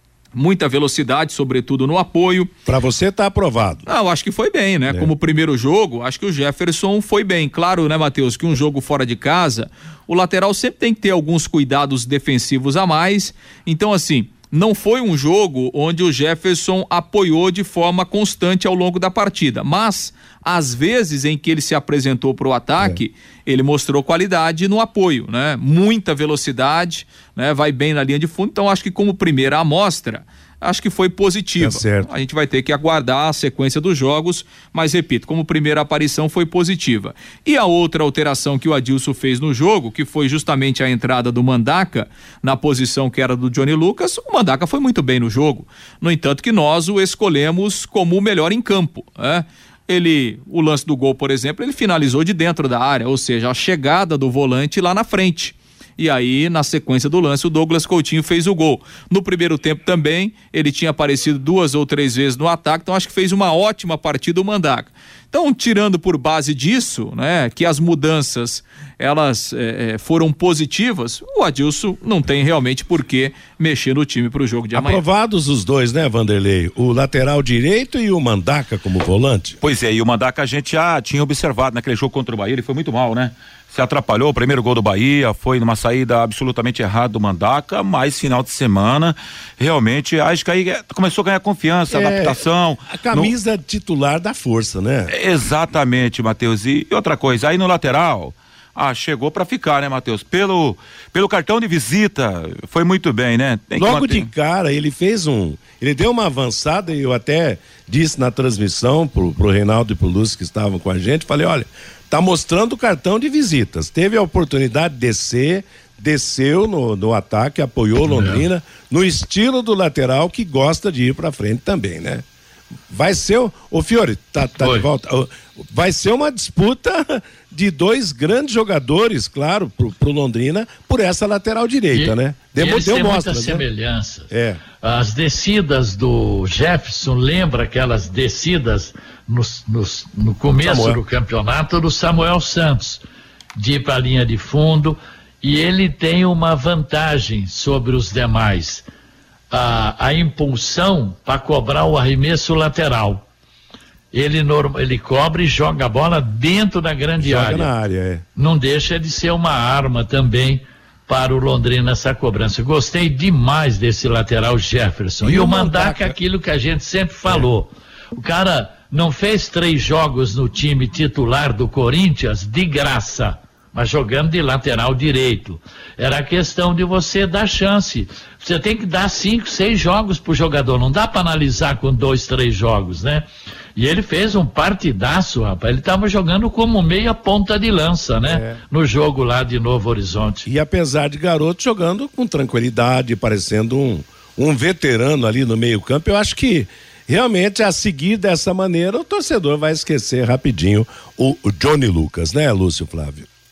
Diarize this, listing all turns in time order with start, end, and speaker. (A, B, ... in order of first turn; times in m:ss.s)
0:00.3-0:02.5 A
0:02.6-0:03.8 B
0:03.8-1:15.0 A
0:31.6-0:32.1 B
1:14.7-1:19.6 B
1:19.6-1:33.3 C
1:31.9-1:35.1 B
1:35.1-1:44.3 C
1:43.8-2:02.2 B
1:58.0-1:58.4 D
2:02.9-2:13.6 B
2:04.6-2:04.9 D
2:11.9-2:23.0 D
2:14.3-2:14.6 B
2:20.6-2:21.0 B
2:23.6-2:28.8 D
2:29.5-2:33.2 D
2:34.1-2:37.7 D
2:37.2-2:38.2 B
2:38.4-3:10.5 D
2:45.2-2:46.2 B
3:08.2-3:08.6 B
3:10.4-3:23.3 B